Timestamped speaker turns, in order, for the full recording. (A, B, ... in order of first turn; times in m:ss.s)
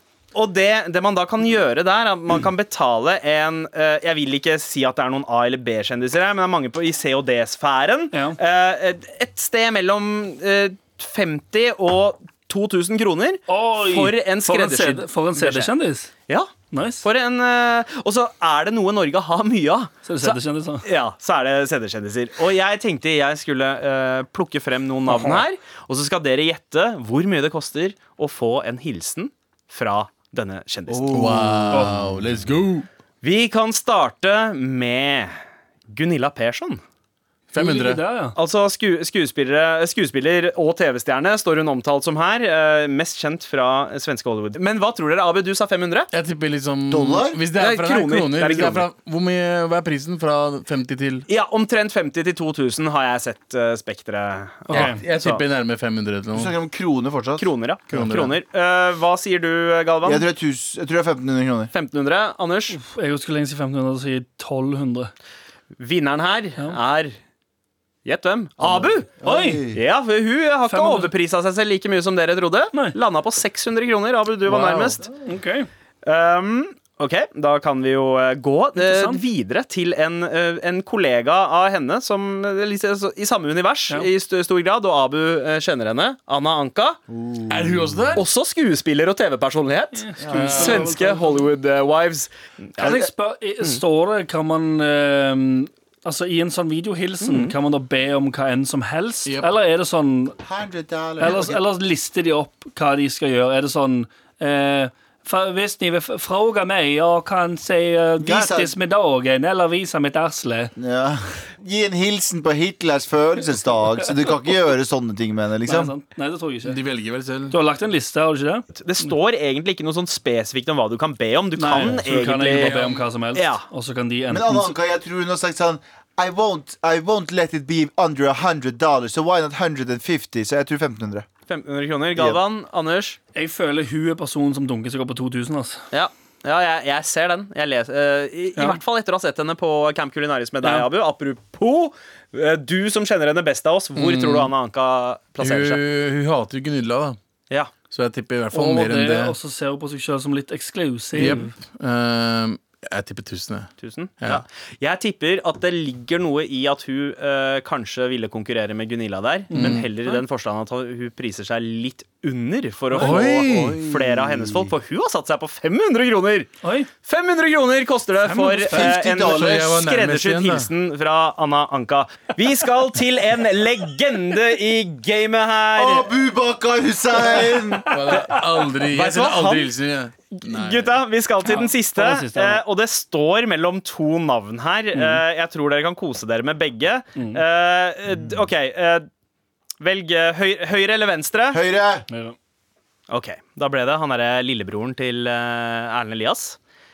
0:00.3-0:15.7 A
0:08.1-0:08.4 B
0:13.5-0:16.1 B
0:16.7-0:17.0 B
0:17.0-0:31.6 A
0:20.0-0:20.9 B
0:25.1-0:25.4 B
0:30.9-0:32.9 C
0:31.7-0:32.0 B
0:33.2-0:35.4 A
0:35.9-0:36.8 A
0:37.5-0:38.0 C
0:37.5-0:38.4 B
0:38.4-0:46.1 A
0:46.1-0:51.3 C
0:46.9-0:47.4 D
0:47.6-0:48.9 A
0:51.3-0:55.4 A
0:54.7-0:55.0 B
0:54.7-0:56.5 C
0:56.3-0:57.5 D
0:57.4-1:00.3 A
0:57.9-0:58.4 C
1:00.0-1:01.7 D
1:01.7-1:02.8 A
1:02.7-1:05.1 B
1:05.8-1:07.2 A
1:08.0-1:09.1 A
1:08.6-1:09.8 D
1:09.2-1:09.6 B
1:09.7-1:15.0 A
1:10.7-1:11.1 B
1:14.5-1:15.0 C
1:15.0-1:15.7 B
1:16.0-1:27.0 A
1:18.8-1:19.2 B
1:27.1-1:28.2 D
1:27.5-1:28.2 C
1:28.2-1:33.0 A
1:29.9-1:31.5 B
1:30.3-1:30.9 C
1:32.8-1:40.4 B
1:37.2-1:37.5 A
1:39.3-1:39.5 C
1:40.4-1:41.6 D
1:41.2-1:50.7 B
1:48.2-1:48.7 D
1:50.8-1:55.9 D
1:55.7-1:56.8 B
1:56.6-1:57.6 C
1:57.5-1:58.7 B
1:58.8-2:03.6 A
2:01.6-2:04.7 B
2:02.5-2:03.1 C
2:04.3-2:11.3 D
2:11.5-2:13.2 A
2:13.4-2:15.8 B
2:15.9-2:25.8 A
2:20.6-2:20.9 B
2:24.0-2:24.5 C
2:25.4-2:27.2 C
2:27.5-2:27.8 A
2:27.8-2:29.4 C
2:28.5-2:31.5 B
2:31.1-2:34.4 C
2:33.8-2:46.5 A
2:39.5-2:40.2 B
2:39.5-2:39.9 C
2:43.0-2:43.8 C
2:43.5-2:44.7 D
2:46.6-2:46.9 B
2:47.0-2:56.1 A
2:48.2-2:48.9 B
2:48.7-2:49.8 D
2:49.2-2:50.7 C
2:55.8-2:58.2 D
2:57.9-3:00.9 C
2:58.1-2:59.7 A
3:00.3-3:09.1 A
3:01.4-3:02.6 B
3:04.9-3:05.2 B
3:07.2-3:07.4 B
3:09.8-3:11.6 A
3:11.5-3:12.1 D
3:12.1-3:12.4 B
3:13.1-3:16.6 A